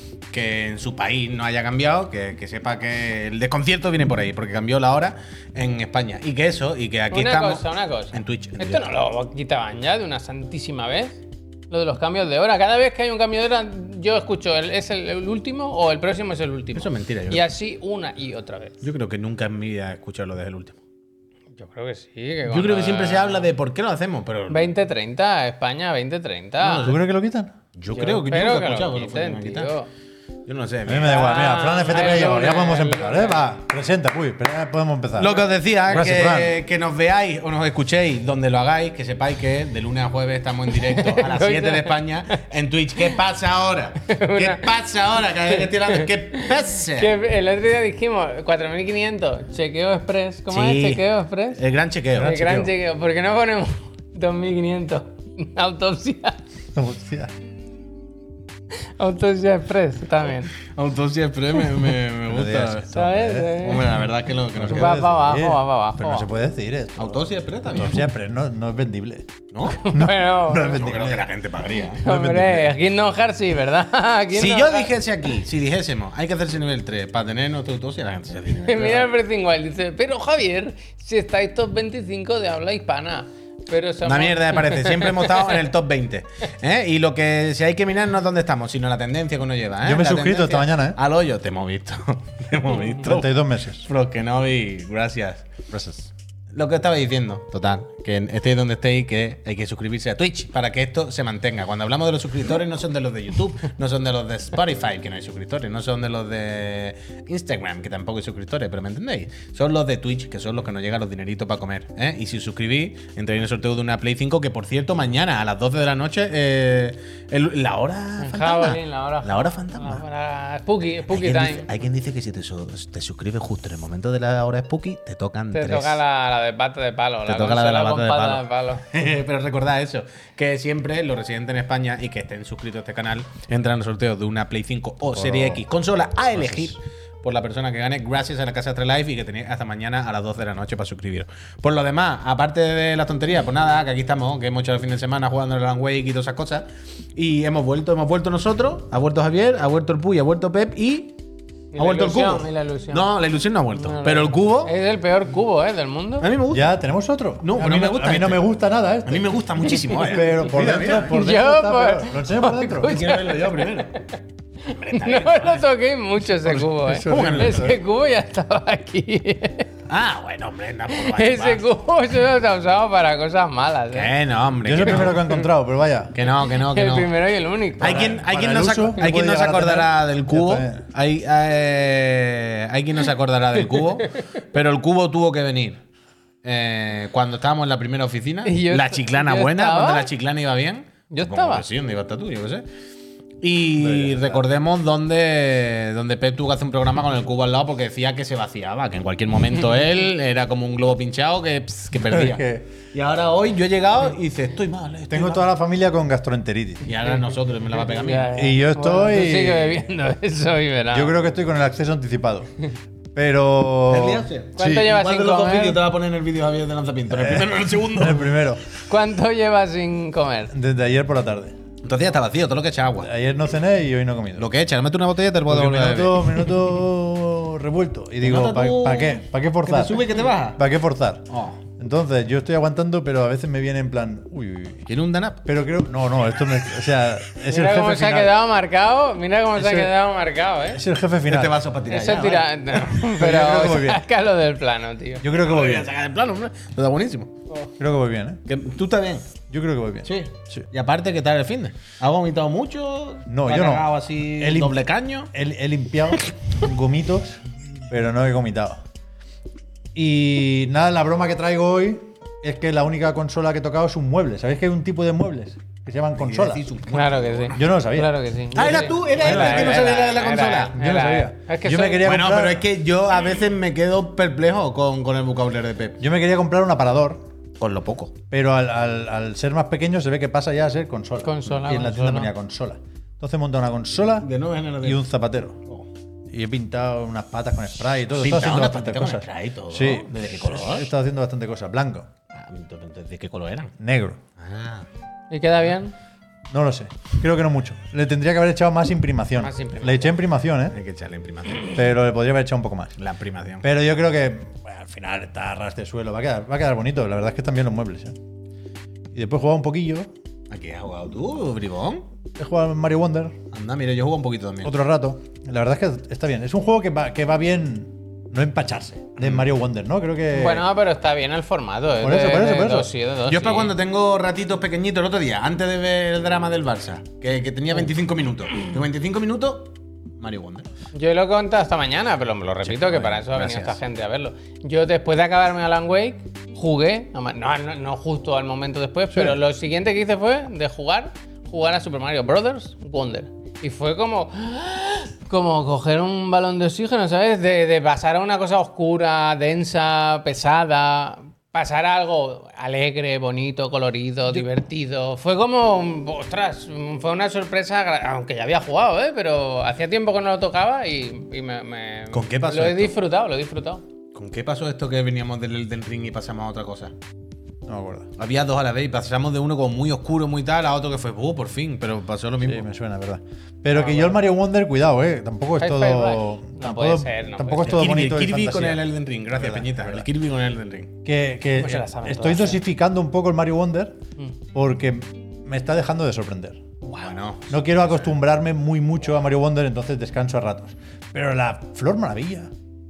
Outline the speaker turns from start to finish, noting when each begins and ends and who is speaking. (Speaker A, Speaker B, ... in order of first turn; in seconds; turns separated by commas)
Speaker A: 0.3-8.8, Speaker B: 7.1-18.8, Speaker A: 16.7-17.4, Speaker A: 18.8-20.8, Speaker B: 21.6-23.5, Speaker A: 22.5-24.7, Speaker B: 24.5-26.9, Speaker A: 26.6-27.0, Speaker C: 26.8-27.5, Speaker A: 27.8-29.7, Speaker B: 27.9-29.9, Speaker A: 30.4-32.2, Speaker C: 30.9-36.5, Speaker B: 31.0-33.5, Speaker A: 35.2-47.1, Speaker B: 40.7-42.4, Speaker B: 44.1-44.7, Speaker B: 45.5-51.6, Speaker A: 50.5-52.3, Speaker C: 52.1-52.7, Speaker B: 52.2-56.4, Speaker C: 56.7-57.3, Speaker B: 59.0-60.5, Speaker A: 60.6-62.9, Speaker C: 62.3-63.6, Speaker B: 62.9-63.9, Speaker A: 63.6-65.0, Speaker C: 64.5-69.3, Speaker B: 64.7-66.3, Speaker A: 67.0-68.1, Speaker A: 69.5-69.8, Speaker B: 69.7-70.8, Speaker C: 69.8-71.2, Speaker A: 70.6-72.3, Speaker B: 71.8-74.9, Speaker C: 72.0-72.6, Speaker A: 74.3-79.1, Speaker B: 78.6-85.6, Speaker A: 84.0-120.0, Speaker C: 89.8-91.0, Speaker C: 93.0-93.8, Speaker B: 118.2-121.7, Speaker A: 121.0-126.0, Speaker B: 125.5-128.9, Speaker A: 127.2-151.2, Speaker C: 135.1-135.6, Speaker C: 136.4-136.7, Speaker B: 151.7-153.1, Speaker A: 151.8-154.7, Speaker B: 153.7-156.3, Speaker A: 156.2-156.7, Speaker C: 156.5-159.3, Speaker A: 157.4-158.4, Speaker A: 159.0-161.2, Speaker B: 159.8-164.1, Speaker C: 159.9-163.1, Speaker A: 162.8-163.9, Speaker A: 164.7-165.7, Speaker B: 164.9-169.7, Speaker A: 166.5-167.8, Speaker C: 166.8-167.7, Speaker A: 169.9-171.6, Speaker B: 170.9-174.1, Speaker A: 173.9-175.2, Speaker C: 174.6-176.1, Speaker B: 174.8-175.4, Speaker A: 176.1-177.1, Speaker B: 176.2-178.1, Speaker A: 177.8-185.8, Speaker C: 177.8-180.8, Speaker A: 186.4-192.6, Speaker B: 188.4-190.1, Speaker B: 191.1-191.7, Speaker A: 193.4-205.5, Speaker C: 193.8-194.4, Speaker C: 202.1-202.7, Speaker C: 205.1-206.9, Speaker A: 206.8-208.3, Speaker B: 207.7-211.2, Speaker C: 208.3-209.9, Speaker C: 210.9-212.5, Speaker C: 213.1-214.9, Speaker A: 213.9-218.4, Speaker B: 214.6-215.8, Speaker C: 217.1-218.6, Speaker B: 218.9-220.5, Speaker C: 220.5-221.6, Speaker A: 221.8-223.1, Speaker C: 223.0-224.5, Speaker A: 224.4-226.6, Speaker C: 225.5-231.3, Speaker A: 228.2-230.6, Speaker A: 231.3-231.6, Speaker C: 231.8-234.9, Speaker A: 234.9-235.4, Speaker C: 235.4-238.3, Speaker B: 237.5-240.8, Speaker C: 239.5-239.9, Speaker C: 240.7-241.6, Speaker A: 241.3-243.0, Speaker B: 241.9-245.2, Speaker C: 243.0-244.0, Speaker C: 245.2-245.9, Speaker A: 245.4-247.3, Speaker C: 247.8-248.4, Speaker A: 248.5-249.3, Speaker C: 249.5-250.7, Speaker A: 250.0-255.3, Speaker C: 253.3-254.8, Speaker C: 255.3-258.8, Speaker C: 259.9-266.6, Speaker A: 266.2-267.6, Speaker B: 266.9-272.1, Speaker C: 267.5-268.1, Speaker A: 268.5-270.8, Speaker C: 269.2-269.9, Speaker C: 270.7-272.7, Speaker A: 272.0-276.0, Speaker C: 276.0-277.2, Speaker A: 277.6-278.1, Speaker C: 278.3-284.3, Speaker B: 281.2-282.3, Speaker A: 284.2-285.0, Speaker C: 284.8-285.6, Speaker C: 286.3-292.1, Speaker A: 288.1-290.9, Speaker A: 292.3-293.7, Speaker C: 293.8-294.2, Speaker A: 294.4-294.9, Speaker B: 295.3-295.9, Speaker C: 296.5-300.8, Speaker B: 299.4-300.2, Speaker A: 300.7-301.8, Speaker C: 301.7-302.9, Speaker A: 303.0-303.7, Speaker C: 303.6-308.2, Speaker C: 309.1-310.1, Speaker A: 310.5-312.1, Speaker C: 312.4-313.4, Speaker A: 313.5-314.7, Speaker C: 314.6-320.6, Speaker A: 319.2-319.5, Speaker B: 320.3-323.7, Speaker C: 322.0-322.9, Speaker A: 323.2-330.6, Speaker B: 330.9-363.8, Speaker A: 332.6-333.8, Speaker A: 362.1-362.9, Speaker A: 364.1-366.9, Speaker C: 367.6-368.1, Speaker A: 368.2-372.6, Speaker C: 372.4-380.1, Speaker B: 373.7-374.2, Speaker B: 375.6-377.9, Speaker A: 377.6-380.9, Speaker C: 381.0-384.0, Speaker B: 381.6-382.6, Speaker C: 384.5-386.6, Speaker A: 386.8-388.1, Speaker C: 387.5-392.5